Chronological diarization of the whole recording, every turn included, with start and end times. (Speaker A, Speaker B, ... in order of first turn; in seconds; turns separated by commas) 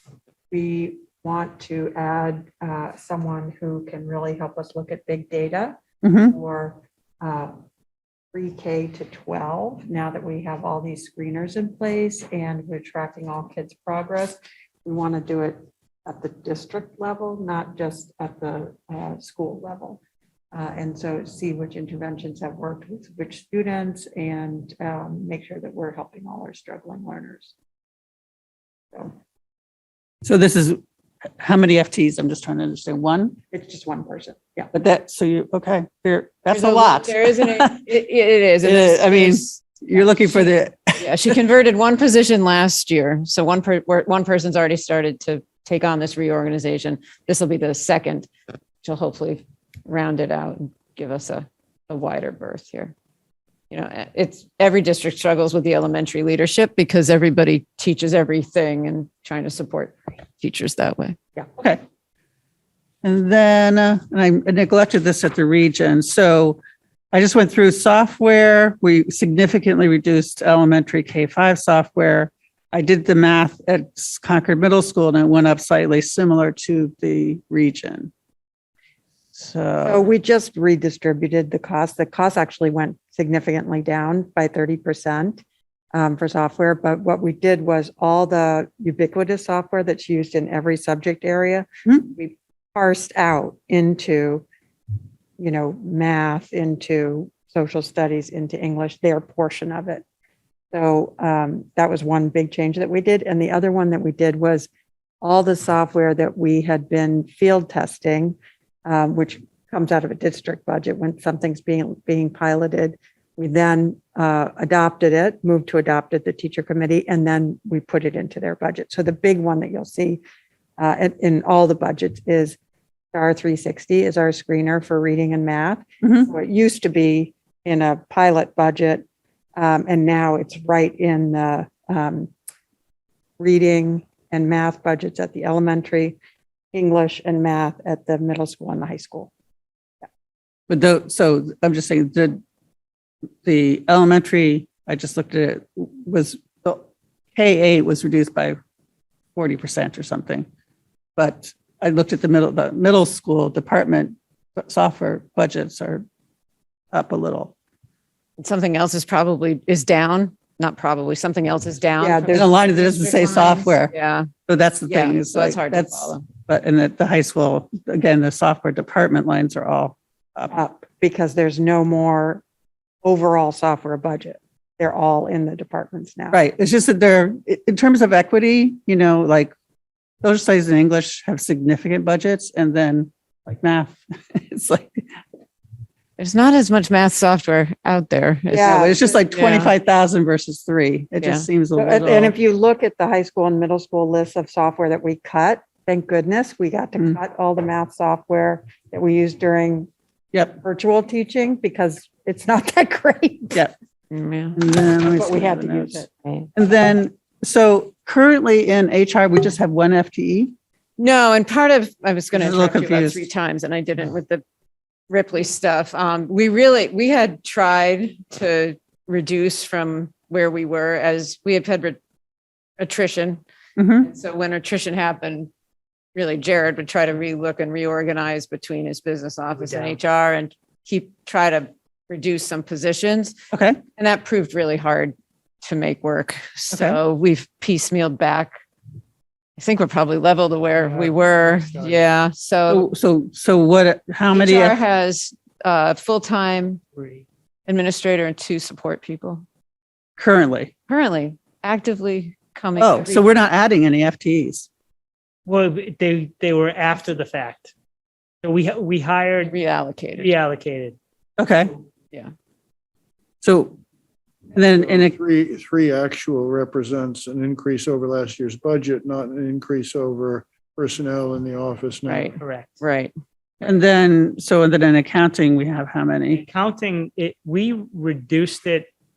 Speaker A: 0.5-7.6, Speaker B: 6.0-6.3, Speaker A: 8.3-20.0, Speaker A: 20.5-27.5, Speaker B: 30.2-30.8, Speaker B: 31.4-33.4, Speaker A: 33.5-34.7, Speaker B: 34.7-37.8, Speaker C: 36.5-48.3, Speaker B: 38.6-41.1, Speaker C: 48.8-52.9, Speaker C: 53.7-61.2, Speaker B: 63.0-66.6, Speaker B: 67.1-78.1, Speaker B: 79.3-80.0, Speaker A: 79.8-85.4, Speaker A: 85.9-94.4, Speaker A: 95.4-100.0, Speaker A: 100.7-104.7, Speaker A: 105.2-120.2, Speaker A: 120.8-122.6, Speaker A: 123.1-129.0, Speaker A: 129.6-132.3, Speaker A: 133.4-136.2, Speaker A: 136.7-139.3, Speaker B: 140.7-142.4, Speaker B: 143.4-148.6, Speaker B: 149.3-150.5, Speaker B: 151.2-156.0, Speaker B: 156.9-157.5, Speaker C: 158.4-164.3, Speaker A: 162.0-162.5, Speaker B: 162.3-163.9, Speaker B: 164.5-170.6, Speaker C: 164.8-166.2, Speaker A: 170.5-172.4, Speaker A: 173.0-176.4, Speaker B: 176.3-179.5, Speaker B: 180.2-185.1, Speaker C: 186.2-189.7, Speaker B: 188.5-192.3, Speaker A: 188.5-189.1, Speaker C: 191.2-191.5, Speaker A: 191.7-199.9, Speaker A: 200.6-203.6, Speaker C: 204.1-204.6, Speaker B: 204.6-210.5, Speaker A: 205.0-206.1, Speaker C: 211.0-214.4, Speaker B: 212.3-213.2, Speaker C: 215.1-222.0, Speaker C: 222.8-223.4, Speaker B: 223.8-224.1, Speaker C: 224.0-225.5, Speaker C: 226.1-233.4, Speaker D: 229.5-230.0, Speaker B: 233.5-233.8, Speaker C: 234.0-238.6, Speaker B: 236.7-237.0, Speaker C: 239.6-242.8, Speaker E: 241.0-242.1, Speaker B: 242.7-244.8, Speaker C: 244.3-246.8, Speaker D: 246.9-247.2, Speaker C: 247.7-249.4, Speaker B: 250.2-250.7, Speaker C: 250.9-253.2, Speaker B: 252.8-254.7, Speaker D: 255.4-257.7, Speaker D: 258.4-259.5, Speaker C: 259.4-260.3, Speaker D: 260.1-261.0, Speaker B: 261.4-261.7, Speaker B: 263.4-263.8, Speaker B: 264.5-265.1, Speaker E: 264.7-272.3, Speaker C: 272.0-273.1, Speaker D: 272.3-272.8, Speaker B: 273.6-276.4, Speaker D: 276.3-278.9